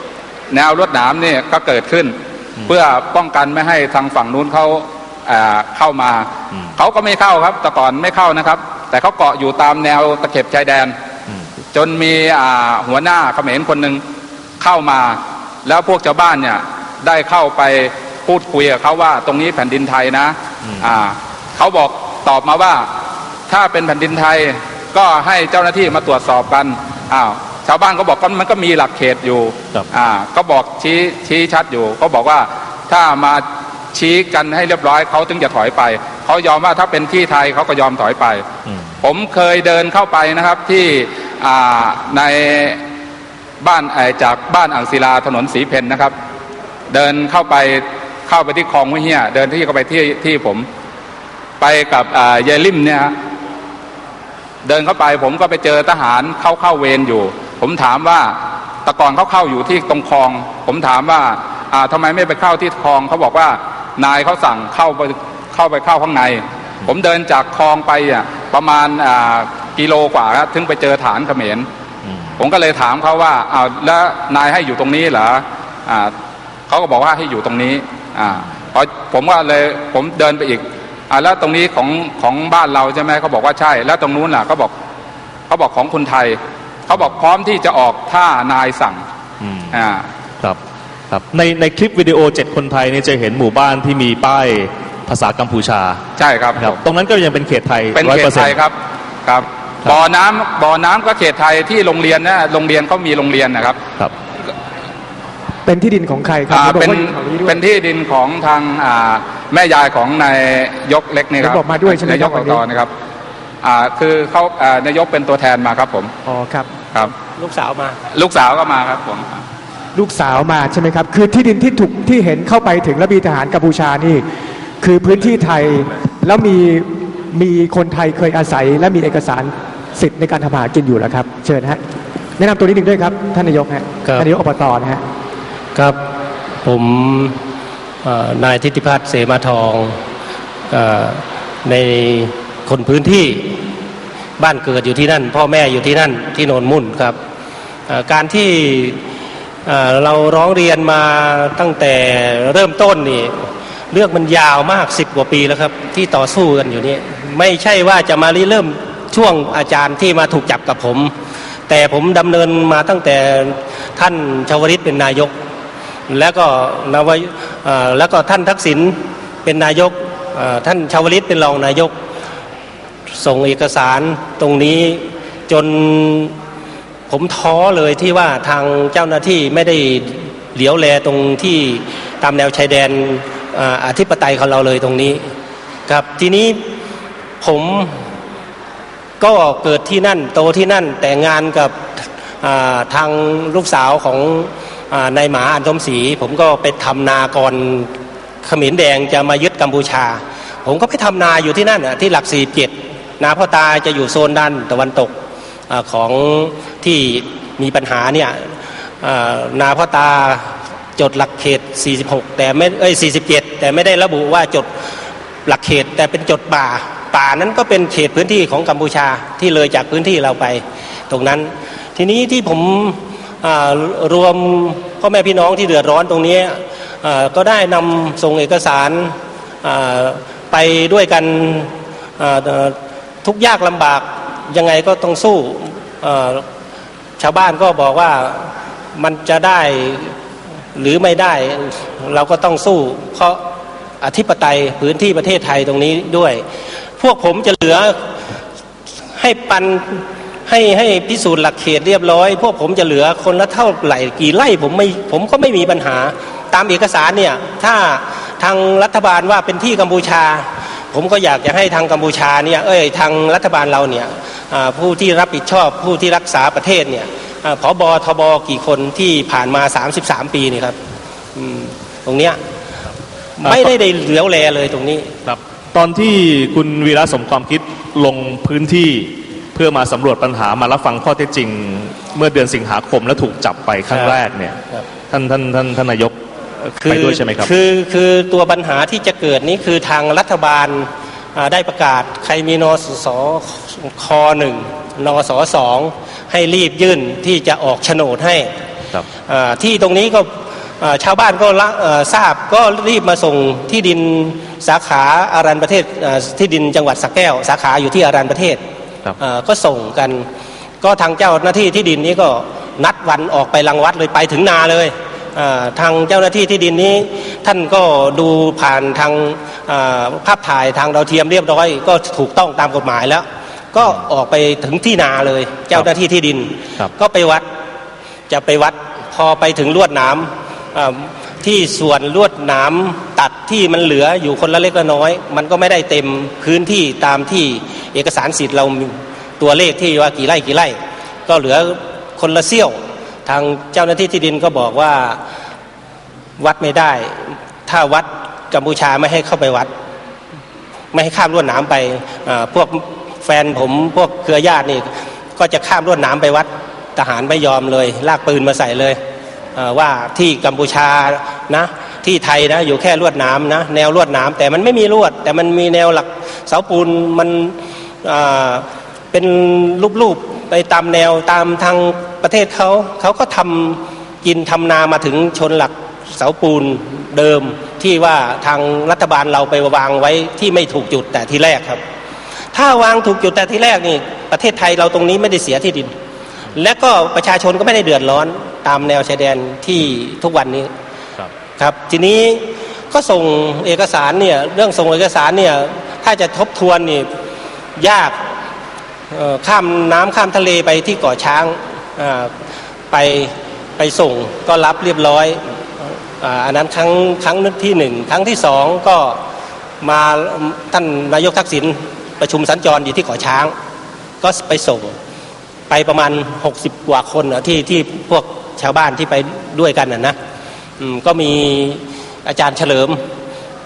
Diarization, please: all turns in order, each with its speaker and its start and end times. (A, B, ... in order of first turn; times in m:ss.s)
0:00.5-0:10.9 A
0:11.7-0:14.0 A
0:14.6-0:22.9 A
0:23.5-0:38.4 A
0:39.0-0:42.8 A
0:43.6-0:46.1 A
0:46.9-0:50.6 A
0:51.6-0:53.1 A
0:54.6-1:11.7 A
1:12.0-1:12.3 B
1:12.4-1:16.1 A
1:16.7-1:24.7 A
1:25.5-1:29.0 A
1:29.4-1:29.8 B
1:29.7-1:30.0 A
1:31.1-1:36.0 B
1:36.2-1:36.8 A
1:36.6-1:38.6 B
1:37.9-1:43.8 A
1:45.6-1:47.6 C
1:46.5-1:52.9 A
1:51.4-1:52.6 C
1:53.6-1:56.1 A
1:56.2-1:56.7 C
1:57.4-1:58.0 D
1:58.1-1:59.4 A
1:59.9-2:04.2 C
2:04.8-2:11.8 C
2:12.4-2:15.0 C
2:16.6-2:17.4 D
2:18.0-2:20.0 D
2:20.7-2:23.6 D
2:24.4-2:27.2 D
2:27.9-2:29.0 D
2:29.6-2:41.1 D
2:41.7-2:45.3 D
2:46.1-2:51.9 D
2:53.1-2:56.4 D
2:57.1-3:05.2 D
3:05.9-3:06.6 D
3:07.4-3:07.9 D
3:09.2-3:17.9 D
3:18.4-3:25.1 D
3:25.7-3:34.7 D
3:35.4-3:56.4 D
3:57.2-4:00.1 D
4:00.7-4:03.4 D
4:04.0-4:06.4 D
4:07.0-4:08.0 D
4:09.2-4:30.8 D
4:31.3-4:32.4 D
4:33.4-4:35.1 D
4:33.4-4:33.7 B
4:35.2-4:44.6 B
4:43.9-4:44.2 D
4:45.1-4:47.5 B
4:46.8-4:58.5 D
4:59.2-5:00.3 D
5:00.8-5:08.6 D
5:09.2-5:10.2 D
5:10.8-5:27.4 D
5:28.3-5:45.2 D
5:46.4-5:49.7 D
5:50.9-5:59.0 D
5:59.5-6:21.8 D
6:22.5-6:25.9 D
6:26.5-6:30.7 D
6:31.6-6:37.1 D
6:37.8-6:38.2 D
6:39.1-6:42.3 D
6:42.9-6:45.4 D
6:46.2-6:49.2 D
6:49.8-6:53.5 D
6:54.2-6:54.9 D
6:55.7-7:00.2 D
7:00.8-7:03.0 D